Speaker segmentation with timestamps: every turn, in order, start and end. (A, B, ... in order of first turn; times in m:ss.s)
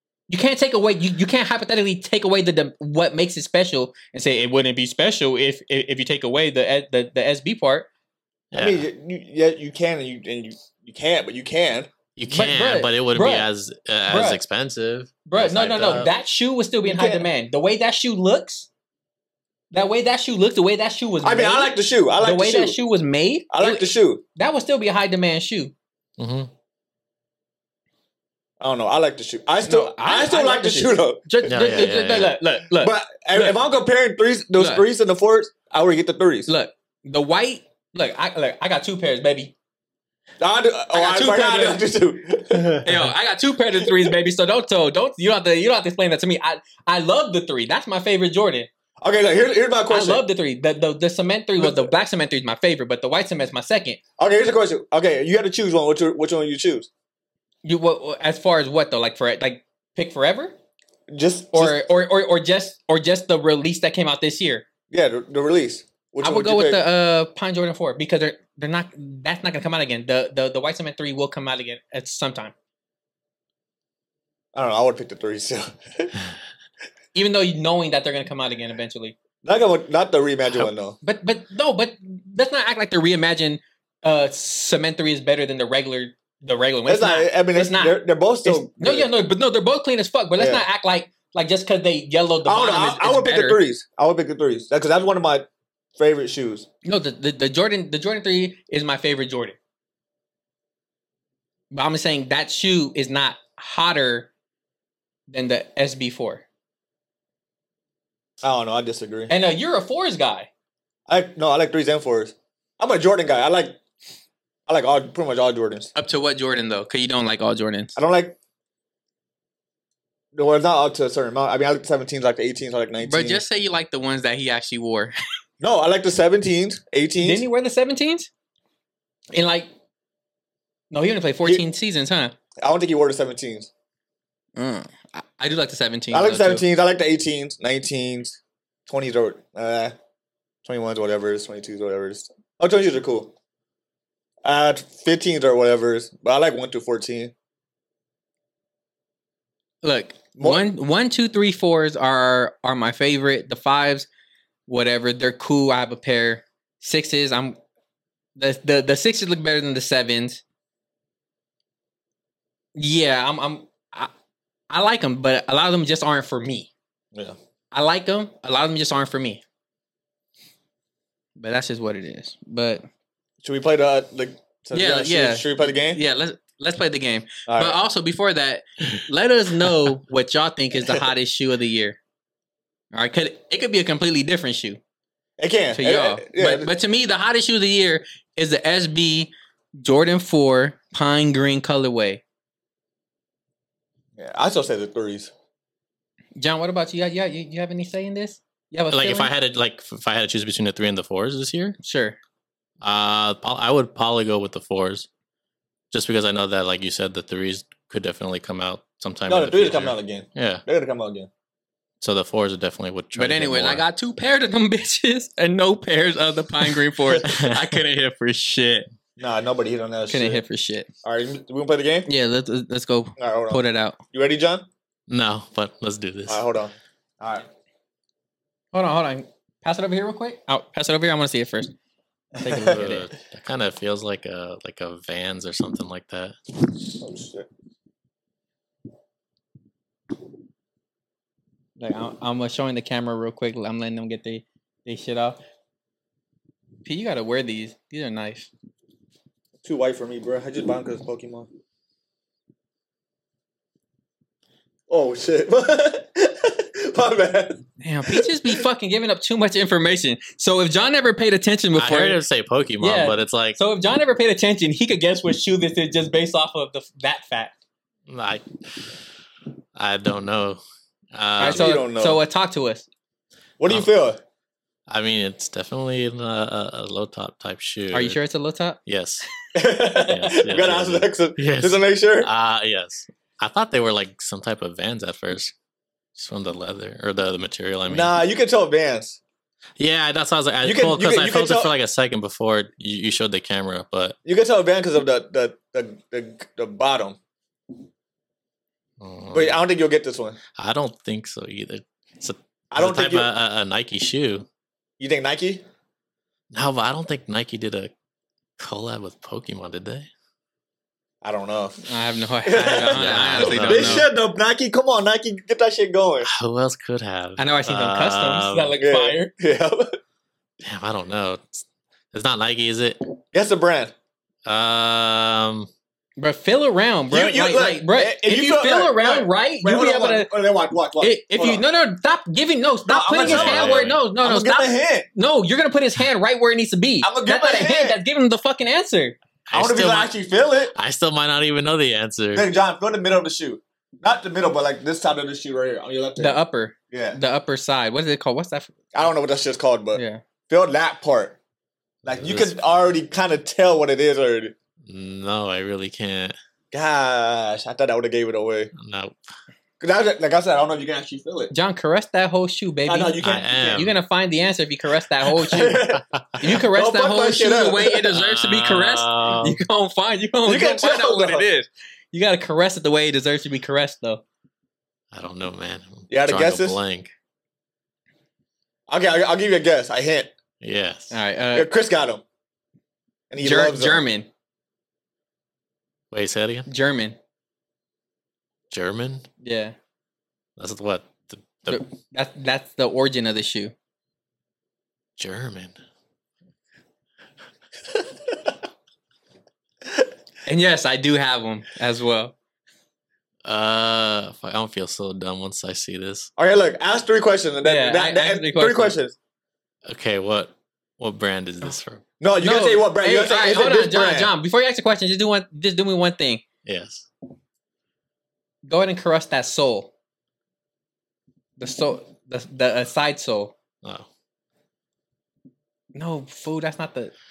0:00.3-0:07.9 A
0:08.5-0:08.9 B
0:08.6-0:11.9 C
0:12.2-0:16.1 B
0:12.3-0:13.5 A
0:14.1-0:14.4 A
0:15.3-0:18.7 A
0:16.8-0:17.3 C
0:19.7-0:25.7 A
0:21.2-0:22.8 C
0:23.5-0:24.2 C
0:26.2-0:26.5 B
0:28.6-0:31.5 C
0:29.6-0:33.6 A
0:31.5-0:32.4 B
0:32.8-0:36.5 C
0:34.6-0:34.8 A
0:36.5-0:39.5 A
0:40.4-0:43.0 C
0:40.9-0:41.8 A
0:42.8-0:48.7 A
0:43.8-0:44.1 C
0:49.0-0:50.2 C
0:49.9-0:54.0 A
0:51.6-0:51.9 C
0:54.2-0:56.9 C
0:57.6-1:00.6 A
1:01.1-1:01.8 C
1:01.5-1:04.7 A
1:04.9-1:06.8 C
1:06.2-1:12.5 A
1:14.5-1:16.2 C
1:17.1-1:19.2 A
1:19.4-1:21.0 C
1:21.0-1:33.6 A
1:26.9-1:29.1 C
1:30.4-1:30.6 C
1:32.4-1:36.7 C
1:36.8-1:39.6 A
1:41.7-1:44.3 A
1:45.3-1:46.4 A
1:48.4-1:49.3 C
1:49.3-1:50.5 A
1:51.1-1:53.8 C
1:54.7-1:55.9 C
1:56.0-1:58.0 A
1:58.0-1:58.4 C
2:00.3-2:03.4 C
2:03.0-2:05.1 A
2:05.6-2:07.4 C
2:07.2-2:08.3 A
2:09.3-2:09.7 A
2:10.9-2:12.4 A
2:12.6-2:13.7 C
2:14.6-2:16.6 A
2:16.1-2:19.9 C
2:20.6-2:23.3 C
2:24.4-2:27.3 C
2:29.8-2:34.1 A
2:30.4-2:30.7 C
2:34.7-2:37.6 A
2:38.4-2:40.4 A
2:42.8-2:44.1 A
2:44.7-2:46.7 A
2:47.7-2:49.4 A
2:51.4-2:52.9 A
2:53.4-2:56.0 C
2:54.7-3:02.0 A
2:57.5-2:57.8 C
3:00.8-3:01.0 C
3:02.9-3:04.8 A
3:05.4-3:06.7 C
3:05.7-3:12.2 A
3:14.2-3:15.3 C
3:16.4-3:19.3 A
3:18.9-3:21.8 B
3:21.8-3:22.2 A
3:22.8-3:25.1 B
3:25.9-3:30.6 B
3:29.3-3:31.3 C
3:32.0-3:33.8 B
3:33.2-3:38.9 A
3:37.2-3:37.6 B
3:39.2-3:40.4 C
3:40.1-3:40.9 A
3:41.0-3:42.1 C
3:42.1-3:44.0 A
3:43.2-3:44.7 C
3:45.1-3:46.4 B
3:46.3-3:47.5 C
3:48.7-3:51.7 A
3:52.4-3:52.8 C
3:52.4-3:53.1 A
3:52.7-3:56.4 B
3:57.0-3:57.5 C
4:01.8-4:05.4 A
4:06.8-4:08.5 A
4:09.6-4:11.5 C
4:14.9-4:18.6 C
4:17.8-4:22.2 A
4:21.8-4:23.6 B
4:22.8-4:27.6 A
4:28.1-4:29.0 B
4:29.8-4:30.6 B
4:31.1-4:31.7 B
4:31.4-4:32.2 C
4:31.4-4:32.9 A
4:33.6-4:34.2 C
4:34.9-4:38.2 B
4:37.9-4:38.8 A
4:38.9-4:39.2 B
4:39.5-4:42.3 C
4:39.9-4:45.5 B
4:46.2-4:48.2 B
4:47.9-4:49.2 C
4:49.8-4:54.2 B
4:50.6-4:51.7 C
4:54.3-4:57.2 C
4:59.0-4:59.6 B
4:59.3-5:00.4 C
5:00.6-5:04.5 B
5:02.7-5:03.3 C
5:05.0-5:05.6 C
5:06.5-5:07.9 B
5:08.6-5:10.1 B
5:11.2-5:11.9 C
5:11.9-5:14.1 A
5:12.4-5:16.3 C
5:12.9-5:14.1 B
5:16.2-5:18.8 B
5:17.4-5:19.3 A
5:18.8-5:20.0 C
5:20.6-5:23.0 B
5:23.3-5:23.9 C
5:24.4-5:25.7 B
5:26.2-5:30.3 A
5:27.1-5:31.6 C
5:31.0-5:39.2 A
5:32.9-5:35.1 C
5:33.2-5:34.0 B
5:37.0-5:38.0 C
5:39.5-5:40.1 B
5:39.5-5:40.7 C
5:40.7-5:42.5 B
5:42.3-5:46.4 C
5:46.2-5:48.8 A
5:46.9-5:47.2 C
5:48.9-5:51.4 C
5:49.9-5:50.2 A
5:52.0-5:54.5 C
5:52.1-5:52.9 B
5:54.9-5:56.4 B
5:56.7-5:58.7 C
5:58.8-5:59.2 B
5:59.8-6:01.5 C
6:01.5-6:05.8 A
6:02.9-6:03.9 C
6:03.2-6:04.0 B
6:05.4-6:08.1 C
6:05.9-6:06.3 B
6:06.4-6:14.2 A
6:08.1-6:09.6 B
6:10.4-6:11.5 C
6:15.1-6:17.1 B
6:16.1-6:16.8 C
6:18.9-6:20.3 C
6:20.6-6:21.2 B
6:21.1-6:21.7 A
6:21.5-6:22.2 C
6:23.3-6:24.0 C
6:23.4-6:24.3 A
6:26.1-6:26.7 B
6:26.7-6:27.2 A
6:28.7-6:29.3 B
6:29.4-6:29.8 A
6:30.6-6:31.8 B
6:31.7-6:33.7 A
6:35.2-6:35.7 B
6:40.5-6:42.4 A
6:43.4-6:46.3 B
6:46.4-6:49.2 C
6:47.6-6:49.0 A
6:49.9-6:52.0 B
6:52.2-6:54.3 C
6:52.4-6:56.4 A
6:56.6-6:57.1 B
6:58.6-6:59.9 A
7:01.6-7:03.6 A
7:05.9-7:07.1 A